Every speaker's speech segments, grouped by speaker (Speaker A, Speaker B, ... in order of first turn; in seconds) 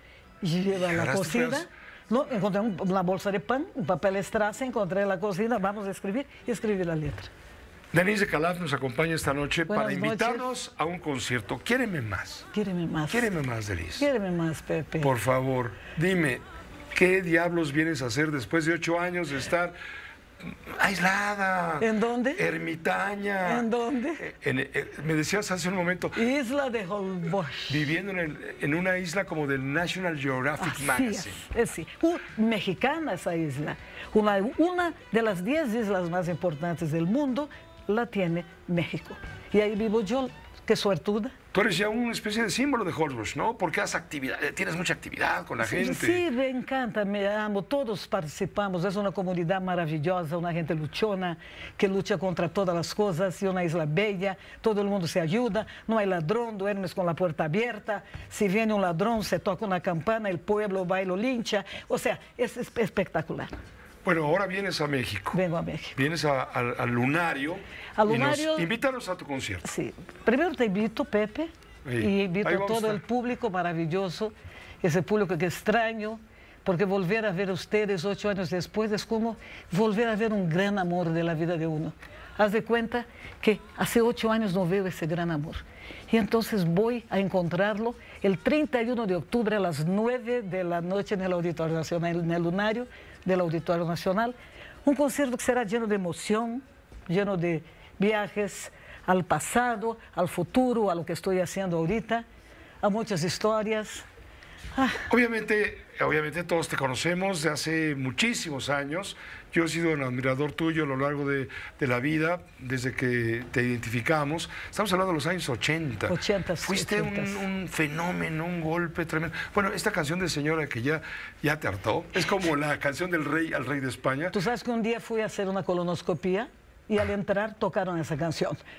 Speaker A: 0.4-7.3, 9.7-10.5, 12.5-13.3, 14.0-15.1, 21.8-22.4, 23.4-24.2, 26.1-27.9, 30.6-41.3, 45.6-63.5, 65.3-66.0, 68.0-68.7, 69.6-94.3, 94.8-102.2, 102.8-104.0, 104.8-105.0, 116.1-117.4, 124.3-128.6
Speaker B: 0.7-1.7, 7.9-12.4, 13.1-14.1, 15.0-19.7, 20.4-23.7, 24.2-26.2, 27.7-31.4, 41.5-46.2, 64.0-65.4, 66.0-69.6, 71.8-73.0, 105.1-124.3